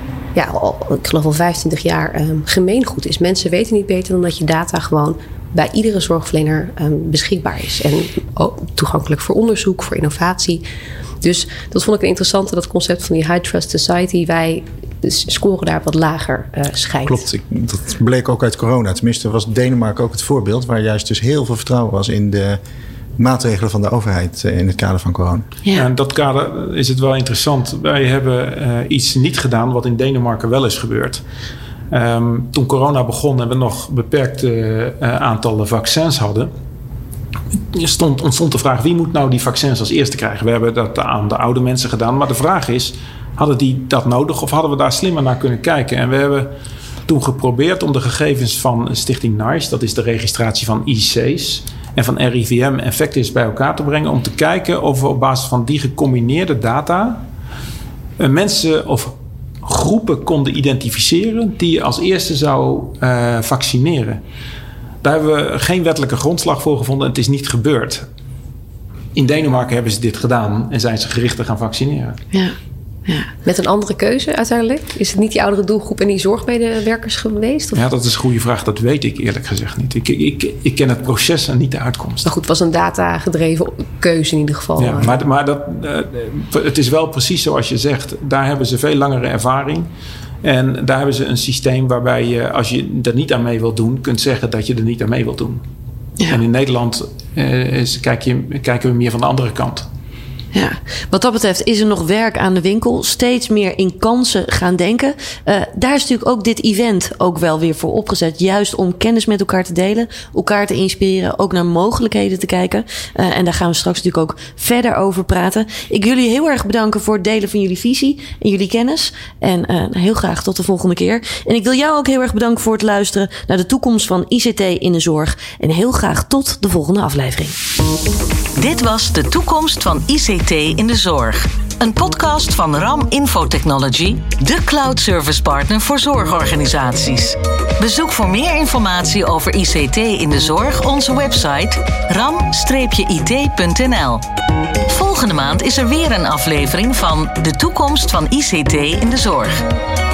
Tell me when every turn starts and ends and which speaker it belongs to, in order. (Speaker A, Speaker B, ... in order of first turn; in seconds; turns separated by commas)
Speaker A: 0.3-10.6, Speaker A: 11.2-17.2, Speaker B: 17.1-22.6, Speaker B: 23.2-25.5, Speaker C: 25.7-31.2, Speaker C: 31.9-36.5, Speaker C: 37.6-46.5, Speaker C: 47.1-57.2, Speaker C: 58.2-64.2, Speaker C: 65.0-68.0, Speaker C: 69.1-72.2, Speaker D: 72.3-73.3, Speaker A: 73.4-77.8, Speaker C: 77.7-82.3, Speaker A: 82.2-85.2, Speaker C: 84.8-89.9, Speaker C: 90.4-95.6, Speaker C: 96.2-99.9, Speaker D: 100.5-127.5, Speaker E: 128.6-144.2, Speaker E: 144.9-149.6